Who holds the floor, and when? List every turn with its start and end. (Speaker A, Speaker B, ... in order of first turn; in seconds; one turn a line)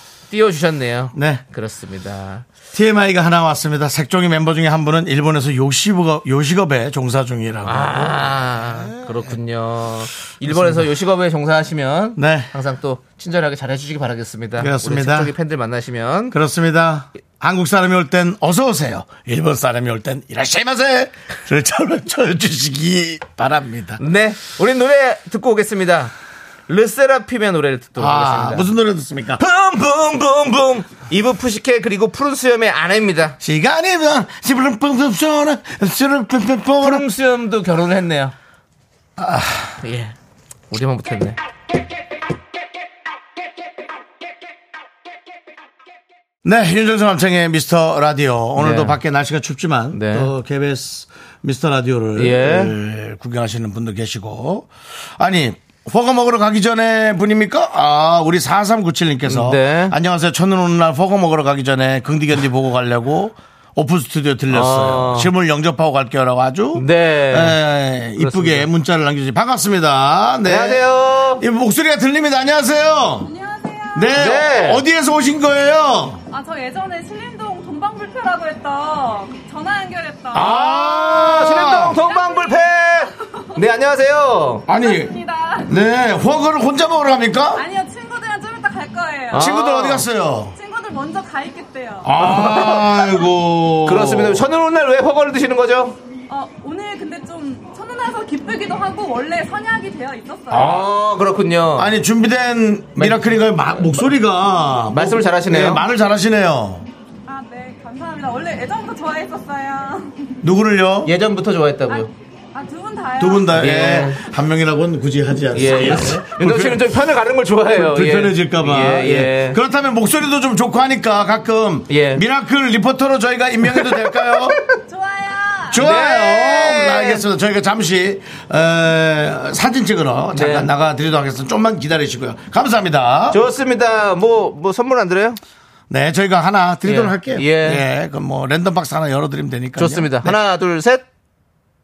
Speaker A: 0.3-2.5
Speaker B: 1.1-1.4
Speaker B: 2.7-9.3
Speaker A: 7.6-16.4
Speaker B: 10.4-10.9
Speaker B: 12.2-12.5
Speaker B: 14.6-15.3
Speaker B: 16.3-24.0
Speaker A: 24.0-26.1
Speaker A: 26.7-28.7
Speaker B: 28.0-29.4
Speaker A: 29.4-33.4
Speaker B: 33.4-37.0
Speaker A: 36.8-38.3
Speaker B: 39.2-39.8
Speaker A: 39.8-40.1
Speaker A: 40.7-41.4
Speaker B: 46.4-70.8
Speaker A: 48.6-49.0
Speaker A: 49.9-50.3
Speaker A: 52.2-52.7
Speaker A: 59.3-59.9
Speaker A: 64.5-65.3
Speaker A: 66.7-67.6
Speaker A: 68.2-68.7
Speaker A: 70.4-71.4
Speaker B: 71.4-73.3
Speaker C: 73.2-74.2
Speaker B: 73.9-76.2
Speaker A: 74.1-74.8
Speaker C: 76.3-80.9
Speaker B: 80.3-82.0
Speaker A: 80.3-84.7
Speaker C: 81.7-82.7
Speaker B: 84.7-85.1
Speaker C: 84.7-85.7
Speaker B: 85.6-87.7
Speaker C: 87.5-89.7
Speaker A: 89.3-90.0
Speaker B: 89.3-90.5
Speaker C: 90.5-93.3
Speaker B: 92.0-94.5
Speaker A: 92.2-92.9
Speaker A: 93.8-96.0
Speaker C: 96.3-100.8
Speaker A: 100.5-101.9
Speaker B: 101.8-106.9
Speaker A: 103.0-103.5
Speaker A: 104.9-105.8
Speaker C: 107.3-110.4
Speaker B: 110.4-111.1
Speaker A: 111.0-112.1
Speaker C: 111.9-114.0
Speaker B: 113.2-116.8
Speaker A: 113.5-114.2
Speaker A: 115.5-119.6
Speaker B: 117.7-124.6
Speaker A: 121.9-122.2
Speaker A: 123.7-124.7
Speaker C: 124.9-125.8
Speaker B: 125.7-133.4
Speaker A: 125.7-127.2
Speaker A: 130.3-130.7
Speaker A: 133.3-135.4
Speaker B: 135.9-140.4
Speaker A: 136.8-137.8
Speaker A: 139.8-141.0